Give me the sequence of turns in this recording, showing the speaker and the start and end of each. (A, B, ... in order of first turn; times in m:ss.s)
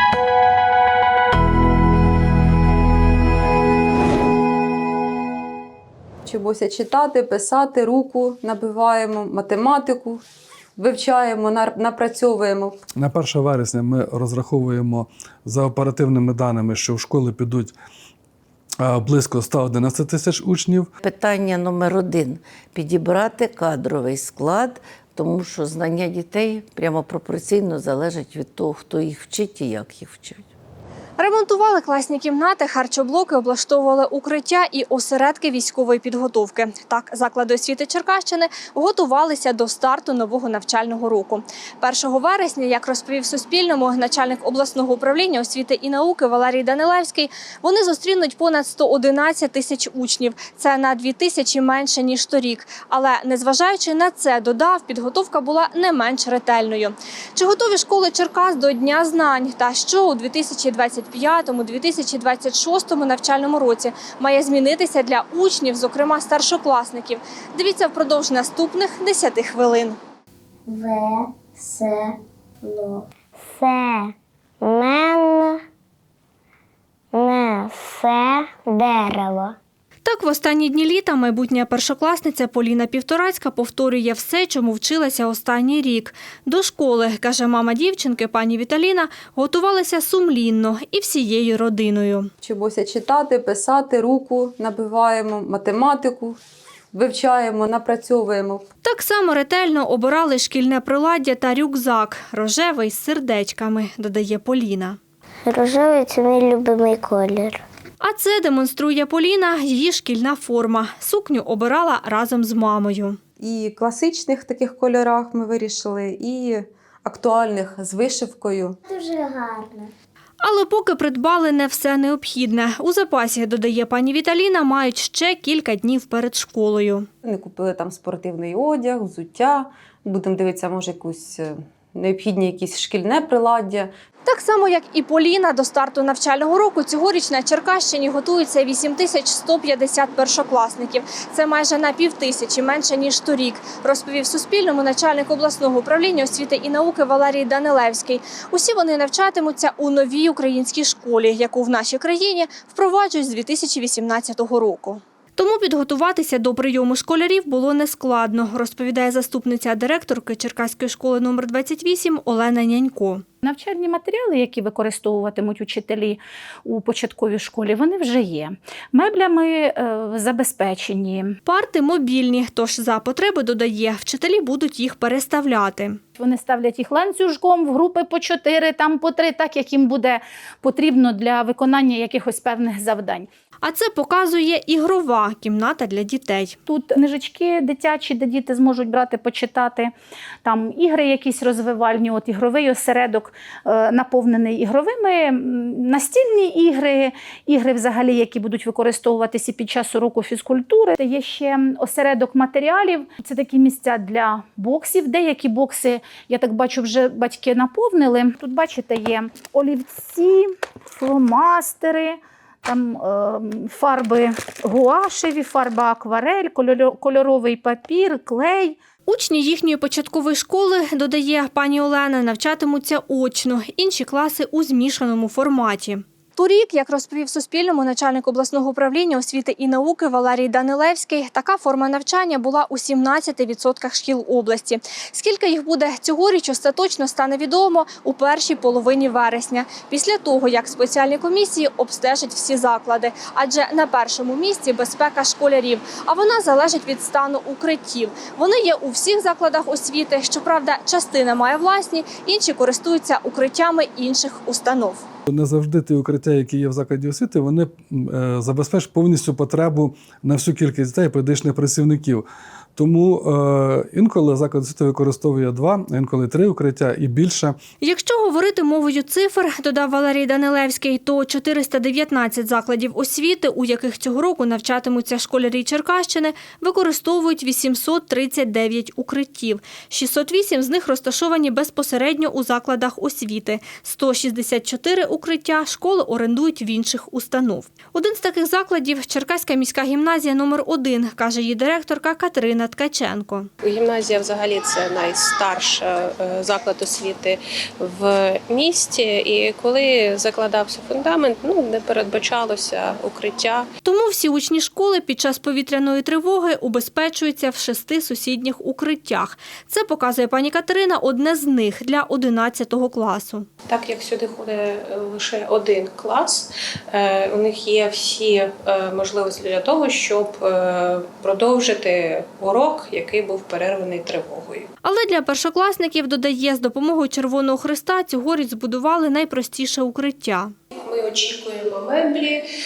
0:06.3-0:10.2 A
0:10.8-0:12.8 A
0:13.0-0:17.8 B
0:18.8-0:20.9 B
0:21.0-0:30.5 C
0:31.2-1:10.0 D
1:10.7-1:15.6 E
1:17.1-1:19.6 E
1:20.0-1:32.3 D
1:32.4-1:36.4 A
1:36.9-1:38.6 A
1:38.8-1:45.0 D
1:45.4-1:47.6 E
1:48.0-1:53.2 D
1:53.4-1:58.8 A
1:58.9-1:59.9 E
2:00.4-2:07.1 D
2:07.2-2:13.9 A
2:14.2-2:43.2 D
2:43.4-2:51.4 F
2:51.4-2:56.0 D
2:56.2-3:03.3 F
3:03.6-3:06.6 D
3:06.7-3:09.9 F
3:10.4-3:38.8 F
3:39.1-4:15.0 D
4:15.3-4:22.2 B
4:22.8-4:27.6 B
4:27.8-4:53.5 D
4:53.6-5:03.7 G
5:03.8-5:13.5 D
5:13.7-5:24.7 G
5:24.8-5:30.5 D
5:30.8-5:32.4 G